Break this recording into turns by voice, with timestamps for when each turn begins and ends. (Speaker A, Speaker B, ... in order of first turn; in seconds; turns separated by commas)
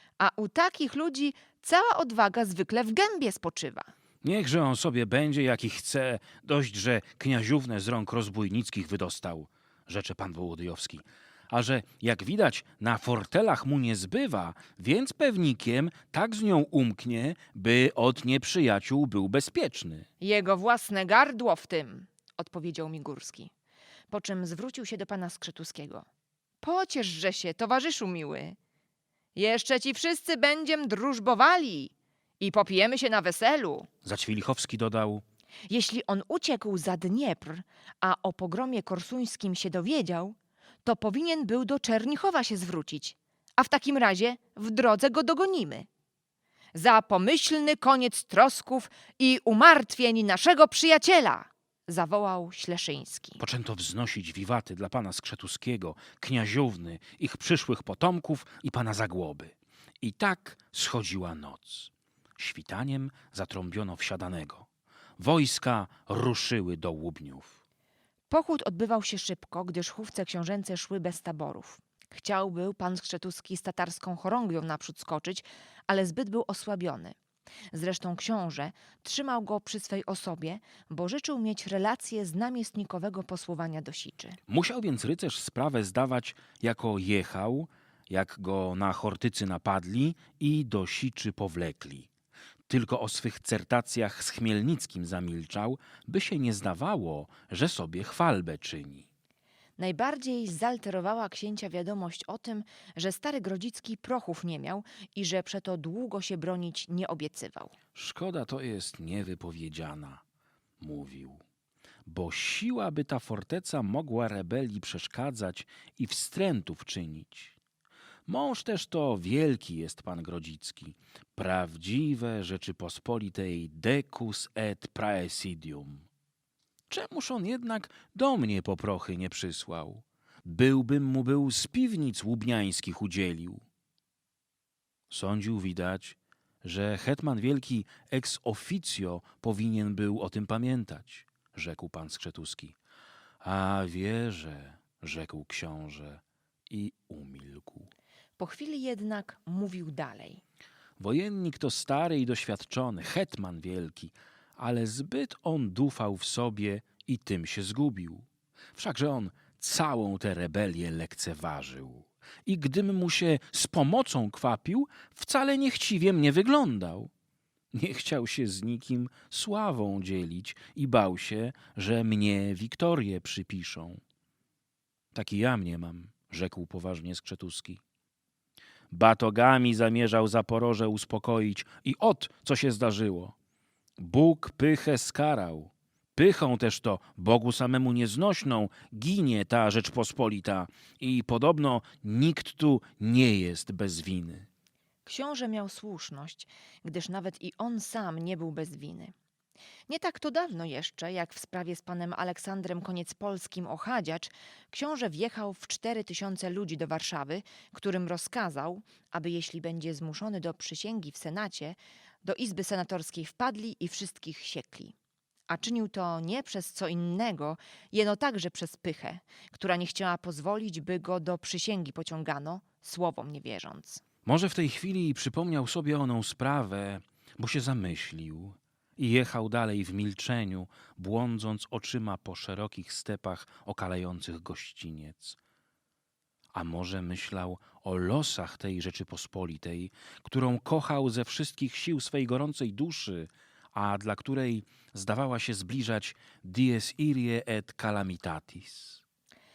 Speaker A: 0.2-3.9, Speaker B: 4.2-20.1, Speaker A: 20.2-23.5, Speaker A: 24.1-26.1, Speaker A: 26.6-28.6, Speaker A: 29.3-33.9, Speaker B: 34.0-35.2, Speaker A: 35.7-45.9, Speaker A: 46.7-53.4, Speaker B: 53.4-64.7, Speaker B: 65.2-67.6, Speaker A: 68.3-77.2, Speaker A: 77.7-84.4, Speaker B: 84.5-92.1, Speaker B: 92.7-99.0, Speaker A: 99.8-107.7, Speaker B: 107.9-110.2, Speaker B: 110.8-111.4, Speaker B: 112.0-117.5, Speaker B: 118.3-126.0, Speaker B: 126.9-133.6, Speaker B: 135.1-142.7, Speaker B: 143.4-147.9, Speaker A: 148.4-150.4, Speaker B: 151.0-167.1, Speaker B: 167.7-174.0, Speaker B: 175.1-177.8, Speaker B: 178.9-183.3, Speaker B: 184.0-194.5, Speaker A: 195.1-199.1, Speaker A: 199.9-214.9, Speaker A: 215.5-224.0, Speaker B: 224.2-235.4, Speaker B: 236.5-249.0